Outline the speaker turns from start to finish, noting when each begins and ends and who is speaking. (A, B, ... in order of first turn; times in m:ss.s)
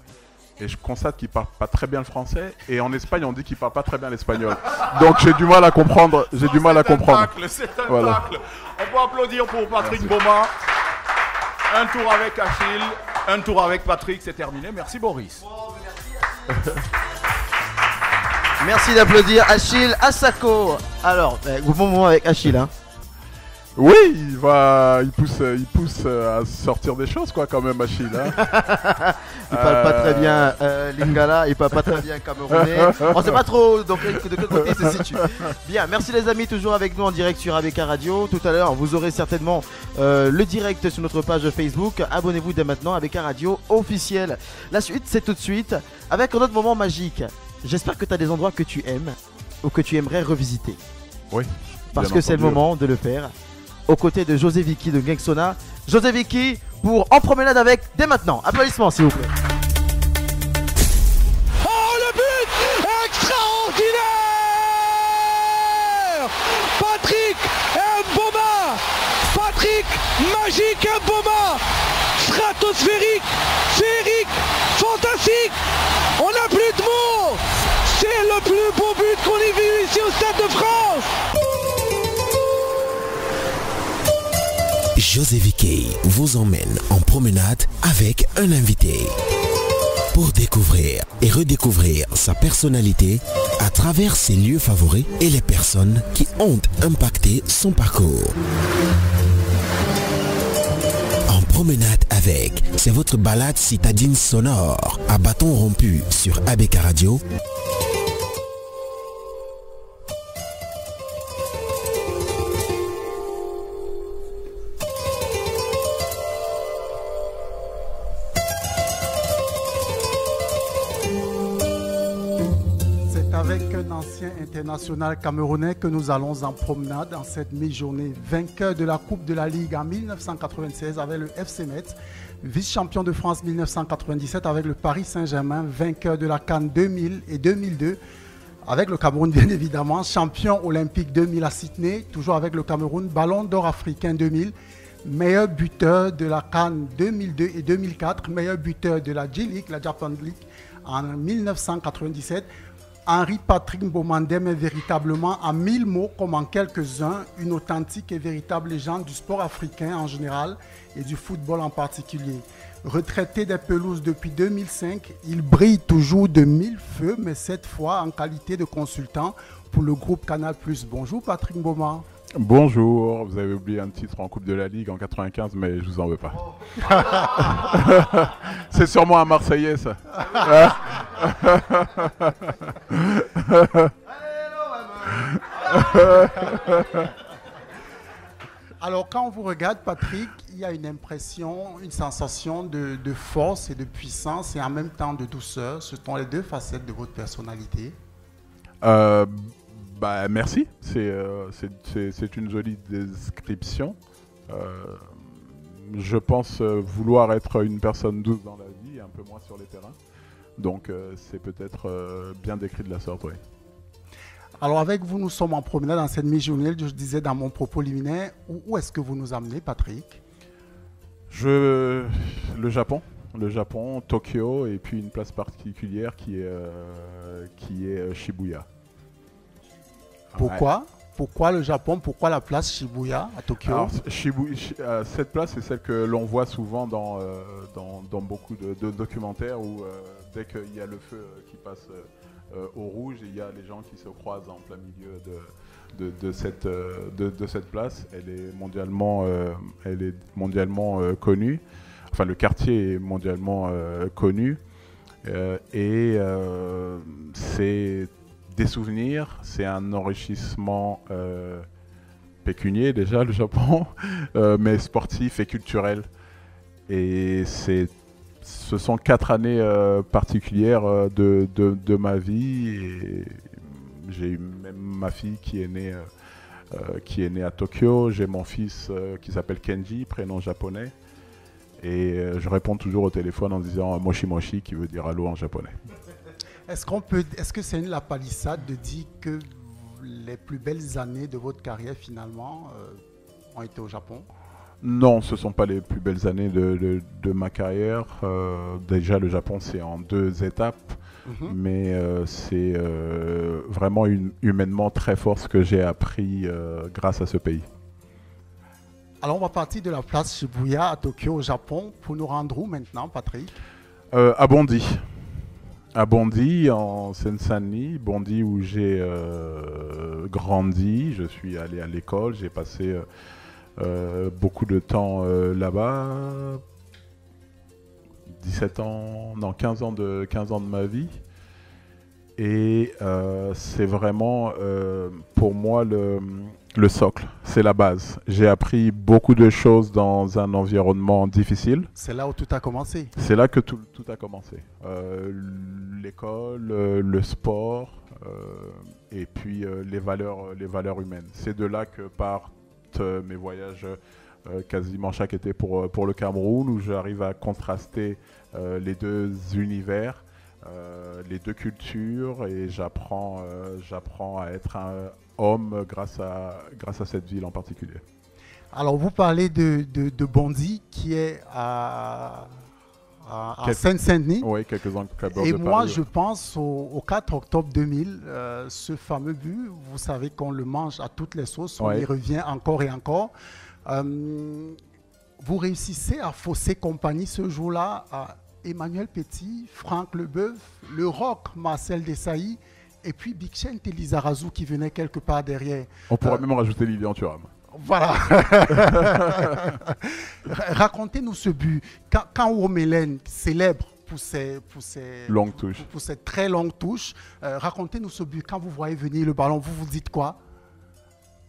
0:00.6-0:07.3 A
0:06.3-0:10.5 B
0:07.8-0:08.3 A
0:09.8-0:10.2 A
0:11.7-0:15.4 B
0:15.5-0:16.6 C
0:18.6-0:22.7 C
0:23.8-0:28.4 A
0:28.3-0:50.8 C
0:29.5-0:30.6 A
0:32.5-0:33.4 A
0:34.1-0:35.2 A
0:51.3-0:52.6 A
0:51.9-0:53.3 C
0:53.9-0:59.3 C
1:01.6-1:11.6 D
1:12.2-1:15.6 D
1:16.2-1:21.1 D
1:25.0-1:29.2 E
1:30.1-1:38.4 E
1:41.3-1:47.2 E
2:03.1-2:18.0 F
2:18.7-2:24.5 F
2:25.0-2:32.5 F
2:33.1-2:52.0 F
2:52.4-2:56.4 A
2:57.4-3:03.9 A
3:04.1-3:05.2 C
3:05.7-3:07.0 A
3:08.8-3:18.0 F
3:18.8-3:24.0 A
3:24.5-3:30.0 A
3:30.6-3:33.4 A
3:34.6-3:40.2 F
3:41.3-3:48.7 A
3:50.3-3:50.7 A
3:50.4-3:53.9 F
3:53.6-4:14.6 A
4:15.2-4:21.7 A
4:22.4-4:26.1 A
4:26.9-4:36.1 A
4:36.7-4:40.9 A
4:41.8-4:45.8 A
4:46.7-4:53.0 F
4:53.5-4:54.3 F
4:54.8-5:07.7 A
5:01.3-5:01.6 F
5:09.2-5:13.6 F
5:14.1-5:15.1 A
5:15.9-5:23.0 A
5:23.8-5:26.6 A
5:28.3-5:31.2 A
5:32.4-5:41.9 A
5:42.0-5:43.1 F
5:43.2-6:08.0 A
6:08.7-6:12.6 F
6:13.3-6:14.5 F
6:14.4-6:16.0 A
6:15.3-6:23.3 F
6:21.8-6:22.1 A
6:23.9-6:24.8 F
6:25.4-6:36.4 F
6:36.1-6:37.5 A
6:37.7-6:40.0 F
6:38.8-6:39.6 A
6:40.5-6:50.4 F
6:45.3-6:45.9 A